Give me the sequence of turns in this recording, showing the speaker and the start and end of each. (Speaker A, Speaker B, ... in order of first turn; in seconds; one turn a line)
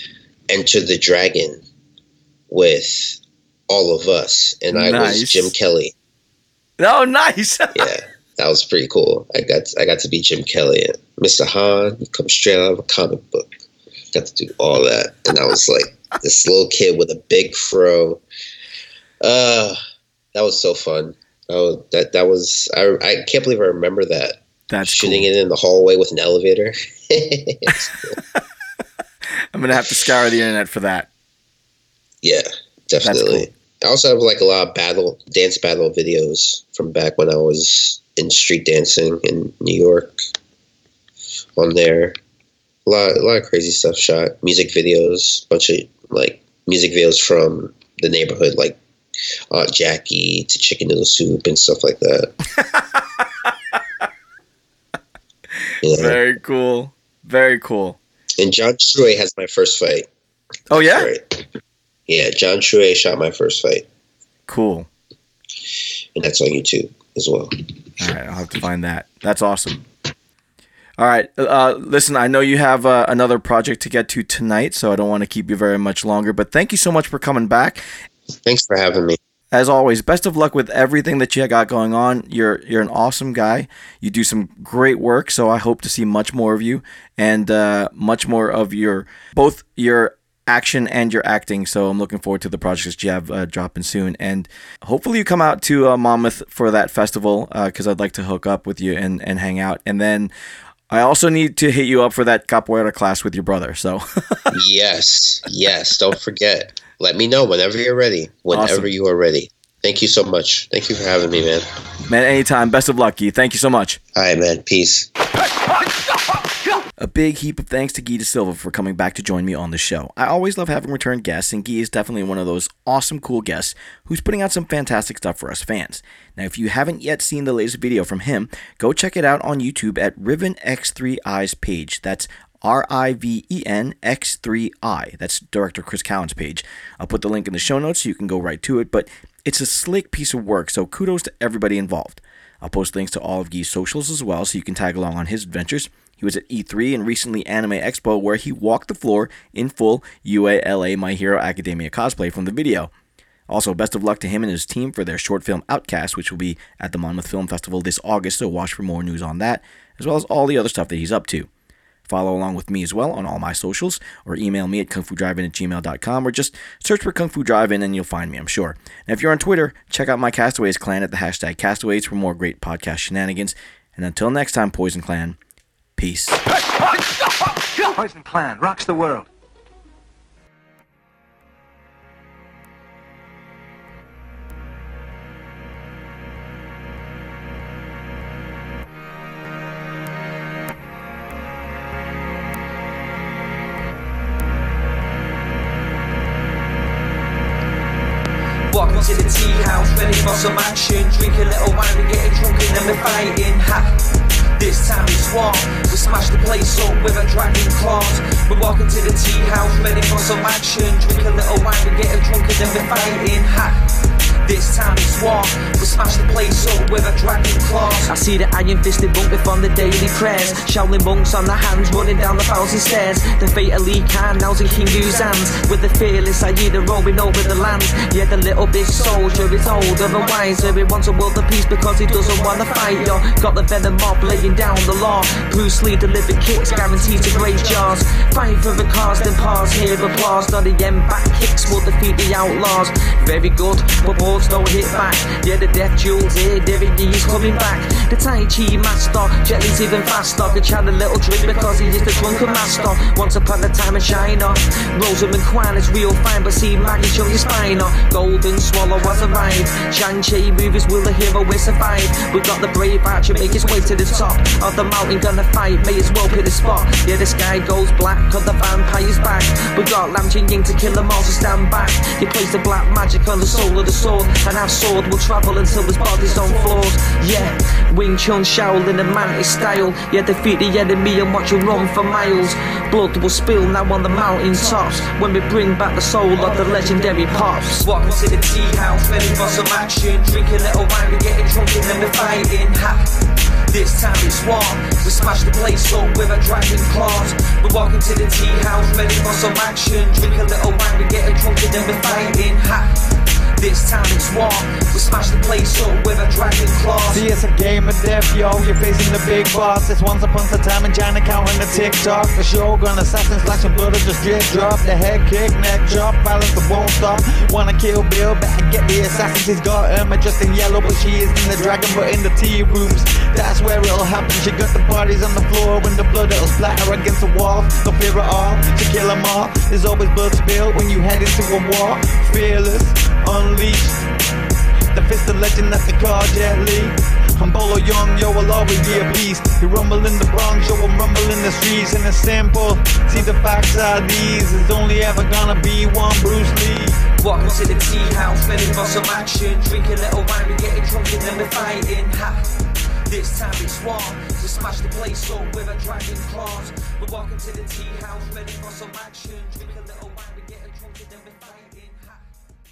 Speaker A: 0.5-1.6
Speaker A: 2.5-5.9
Speaker B: 4.7-5.5
Speaker B: 6.8-7.9
Speaker A: 7.7-13.5
Speaker A: 14.1-18.2
Speaker A: 19.2-19.8
Speaker A: 20.3-28.2
Speaker B: 24.7-25.3
Speaker B: 29.5-31.1
Speaker A: 32.2-40.2
Speaker B: 33.0-33.5
Speaker A: 41.5-42.1
Speaker A: 42.9-48.8
Speaker A: 49.5-52.3
Speaker B: 52.7-53.5
Speaker A: 55.8-56.2
Speaker B: 55.8-58.0
Speaker A: 58.4-60.0
Speaker B: 60.7-61.1
Speaker A: 60.7-61.4
Speaker A: 62.1-63.8
Speaker B: 64.5-64.9
Speaker A: 66.2-67.5
Speaker B: 68.0-69.8
Speaker B: 71.0-77.8
Speaker A: 78.4-79.2
Speaker B: 79.5-100.3
Speaker B: 100.9-104.5
Speaker A: 104.5-111.6
Speaker B: 108.5-108.9
Speaker B: 112.1-114.0
Speaker A: 114.1-115.1
Speaker C: 115.3-116.9
Speaker B: 117.0-152.9
Speaker B: 153.5-161.5
Speaker B: 162.1-175.4
Speaker B: 176.0-176.4
Speaker C: 176.4-179.3
Speaker D: 198.7-204.0
Speaker D: 204.6-213.8
Speaker D: 214.4-293.1
Speaker D: 293.7-302.9
Speaker D: 303.6-307.2
Speaker E: 307.1-334.0
Speaker E: 334.9-347.0
Speaker D: 347.2-352.5
Speaker D: 353.1-362.2